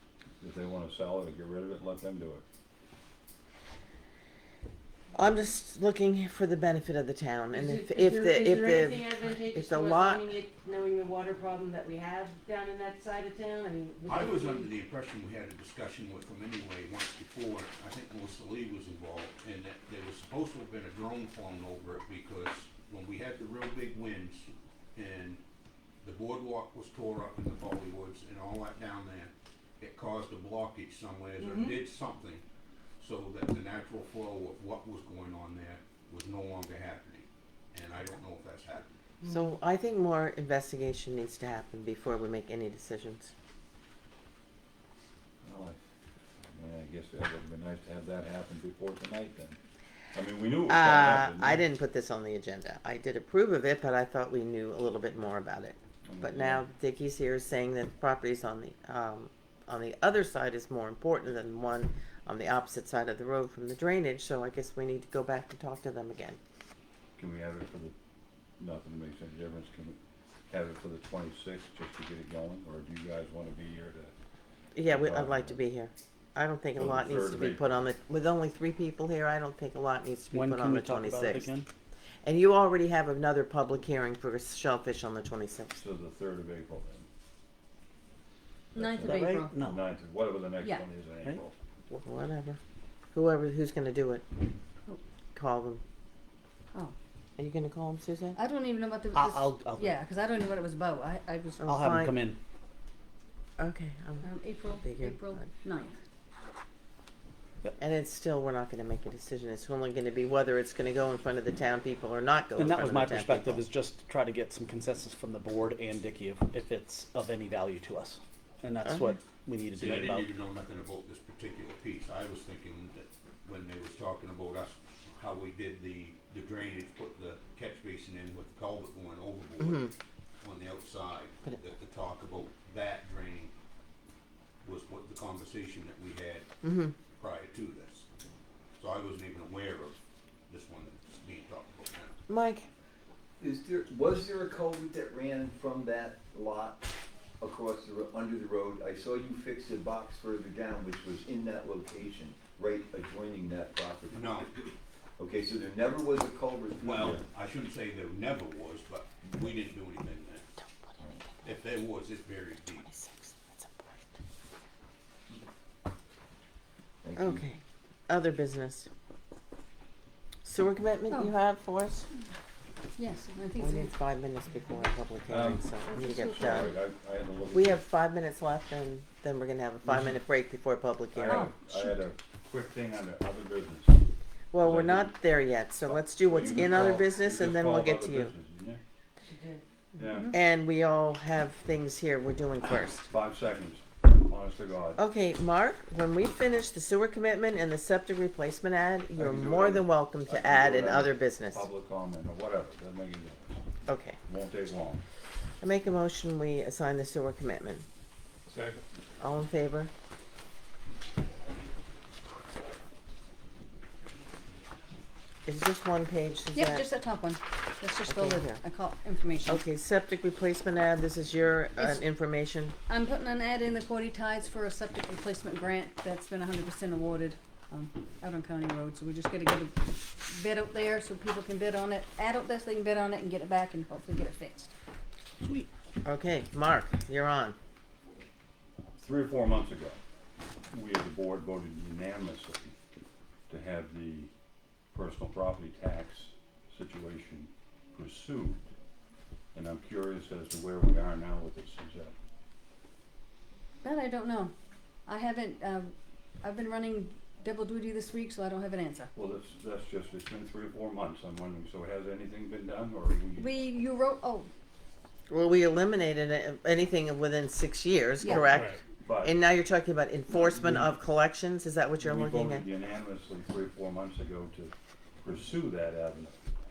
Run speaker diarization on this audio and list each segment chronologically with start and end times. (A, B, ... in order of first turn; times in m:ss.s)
0:00.4-0:02.4 A
0:05.2-0:10.4 B
0:07.6-0:14.7 C
0:14.1-0:25.4 D
0:26.0-0:32.4 D
0:31.4-0:31.8 C
0:33.0-0:38.9 D
0:39.3-0:43.3 B
0:45.4-0:45.8 A
0:46.4-0:49.6 A
0:50.1-0:51.6 A
0:50.7-1:06.4 B
0:56.1-0:56.6 A
1:07.2-1:08.0 A
1:08.6-1:10.0 A
1:10.5-1:14.1 A
1:14.7-1:21.6 B
1:14.9-1:15.6 A
1:16.8-1:17.6 A
1:20.3-1:21.7 E
1:22.2-1:25.8 B
1:25.8-1:27.1 A
1:28.8-1:29.6 F
1:28.8-1:31.6 A
1:28.8-1:29.8 E
1:30.6-1:30.9 F
1:31.9-1:32.6 B
1:33.1-1:34.2 B
1:35.4-1:35.8 B
1:37.4-1:38.4 B
1:38.4-1:41.7 F
1:39.1-1:40.0 E
1:41.6-1:42.2 B
1:41.6-1:42.4 E
1:43.6-1:44.2 B
1:44.2-1:46.0 F
1:44.8-1:45.4 B
1:47.8-1:53.6 B
1:52.6-2:00.3 E
1:58.8-1:59.2 B
1:59.8-2:13.5 D
2:09.6-2:09.9 B
2:14.6-2:16.5 D
2:16.6-2:17.0 B
2:17.2-2:18.1 D
2:18.8-2:20.0 D
2:20.5-2:22.2 D
2:22.3-2:22.7 B
2:23.4-2:26.8 G
2:27.4-2:34.5 G
2:34.1-2:34.7 D
2:35.2-2:37.2 G
2:36.8-2:40.5 D
2:40.6-2:41.6 B
2:41.4-2:42.9 D
2:42.8-2:44.0 B
2:47.0-2:47.4 G
2:47.2-2:48.9 B
2:50.4-2:52.1 B
2:51.1-2:51.4 F
2:53.0-2:54.0 F
2:53.6-2:56.8 B
2:55.3-2:57.8 A
2:57.5-3:01.5 B
2:59.8-3:00.2 A
3:01.1-3:04.0 A
3:01.3-3:02.0 F
3:04.5-3:08.3 B
3:04.6-3:05.2 A
3:05.8-3:08.8 A
3:09.2-3:09.6 C
3:10.0-3:10.4 A
3:10.3-3:13.1 B
3:13.1-3:15.0 A
3:15.0-3:21.7 B
3:19.2-3:23.6 A
3:23.9-3:24.2 B
3:24.3-3:25.0 A
3:25.6-3:27.8 B
3:28.5-3:28.8 E
3:29.2-3:29.9 B
3:35.5-3:36.9 B
3:36.5-3:39.6 F
3:38.1-3:38.6 B
3:39.5-3:42.8 B
3:41.8-3:42.0 F
3:42.9-3:54.7 F
3:56.0-3:57.6 B
3:59.0-4:00.0 A
4:00.7-4:02.8 A
4:03.5-4:04.3 A
4:04.9-4:08.7 A
4:09.5-4:12.1 A
4:13.8-4:14.5 F
4:15.1-4:19.1 F
4:19.2-4:23.5 A
4:23.4-4:24.5 F
4:25.3-4:32.6 B
4:28.2-4:28.5 F
4:28.5-4:28.8 D
4:29.0-4:29.4 A
4:30.3-4:31.0 A
4:32.0-4:36.4 A